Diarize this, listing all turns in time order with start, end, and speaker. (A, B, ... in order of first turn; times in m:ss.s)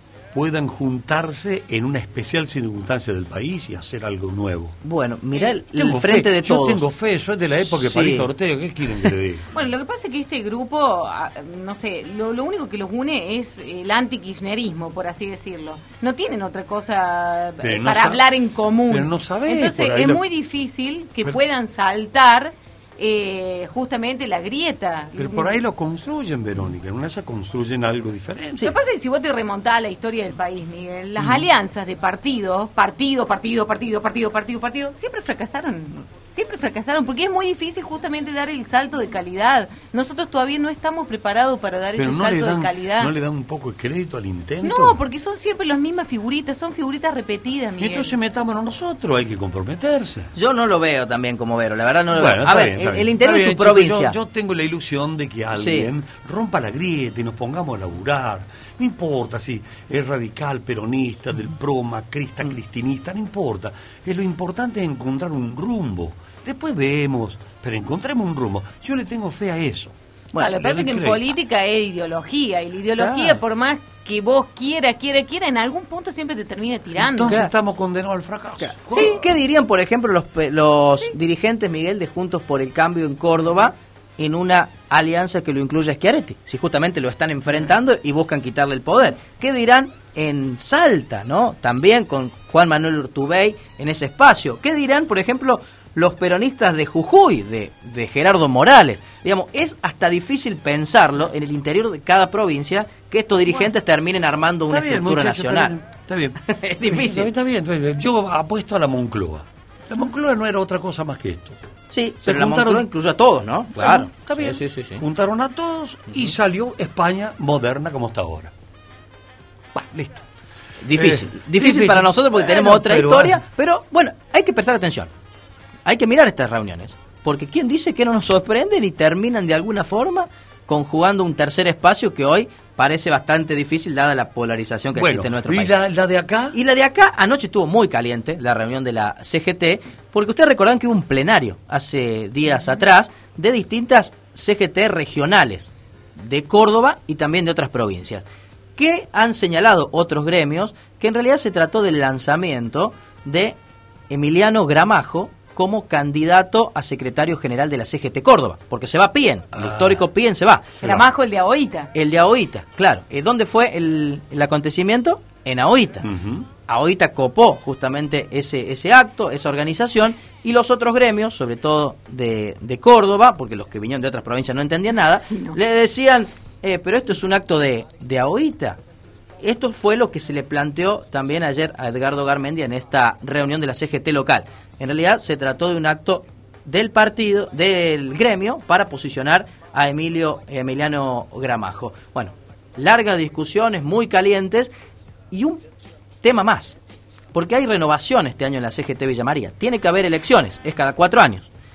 0:00.3-0:04.8 A
0:04.8-0:06.8 B
0:05.5-0:09.5 A
0:07.6-0:08.3 B
0:09.5-0:25.6 C
0:17.6-0:18.3 A
0:18.9-0:20.2 A
0:25.2-0:28.7 A
0:28.6-0:43.1 C
0:31.2-0:31.4 A
0:42.0-0:45.0 A
0:44.6-0:48.2 C
0:47.8-0:50.3 A
0:50.4-0:54.2 B
0:52.1-1:11.2 A
0:55.5-0:55.9 B
1:10.3-1:10.6 B
1:10.4-1:17.4 C
1:13.0-1:13.4 B
1:16.9-1:19.3 A
1:17.2-1:17.5 B
1:18.6-1:45.7 B
1:44.7-1:51.6 A
1:46.4-1:47.3 B
1:51.9-1:55.0 B
1:52.2-1:52.9 A
1:53.7-1:58.5 A
1:59.7-2:00.3 A
2:00.8-2:05.1 B
2:00.9-2:03.4 A
2:05.9-2:15.8 B
2:14.9-2:16.6 A
2:16.5-2:28.2 B
2:28.8-2:33.6 B
2:34.1-2:40.8 B
2:39.5-2:40.0 A
2:40.8-2:41.1 A
2:40.8-2:41.9 C
2:41.9-2:46.1 B
2:46.0-2:46.5 A
2:46.7-2:58.8 B
2:55.3-2:55.6 C
2:59.4-3:14.7 B
3:15.3-3:15.6 B
3:16.2-3:16.8 B
3:17.3-3:21.5 B